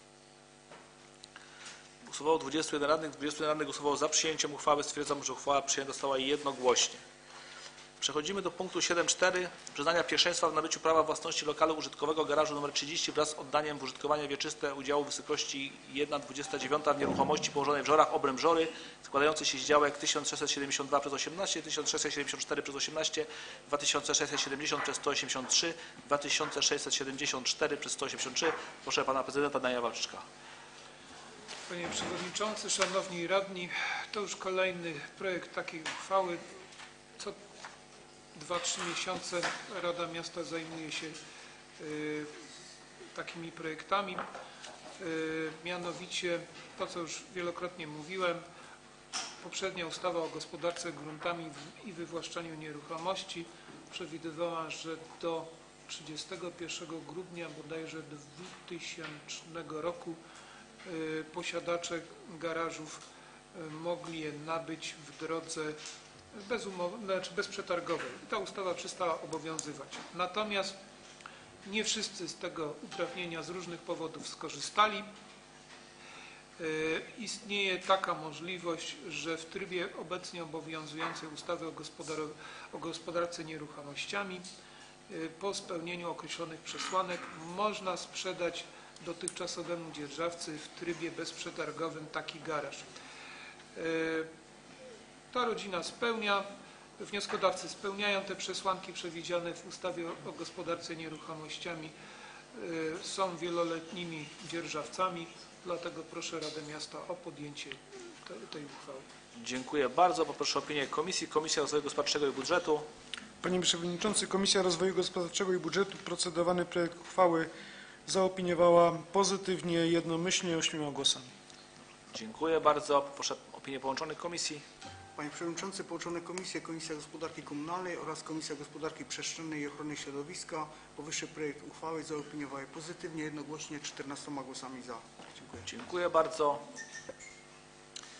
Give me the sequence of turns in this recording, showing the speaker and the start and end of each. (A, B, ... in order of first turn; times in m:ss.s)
0:02.0-0:07.0 A
0:08.0-0:30.2 A
0:31.7-0:36.4 B
0:38.3-0:41.2 B
0:41.8-0:42.3 B
0:43.1-0:44.2 B
0:45.0-0:48.4 B
0:49.4-1:00.2 B
1:00.8-1:05.8 B
1:06.3-1:10.8 B
1:11.6-1:15.1 B
1:16.6-1:24.4 B
1:25.1-1:32.9 B
1:33.7-1:34.3 B
1:35.3-1:36.5 B
1:37.0-1:41.9 B
1:42.5-1:49.1 B
1:49.4-1:52.9 A
1:53.4-1:57.4 C
1:58.1-2:01.1 C
2:02.1-2:04.6 A
2:05.2-2:15.6 D
2:15.6-2:16.6 A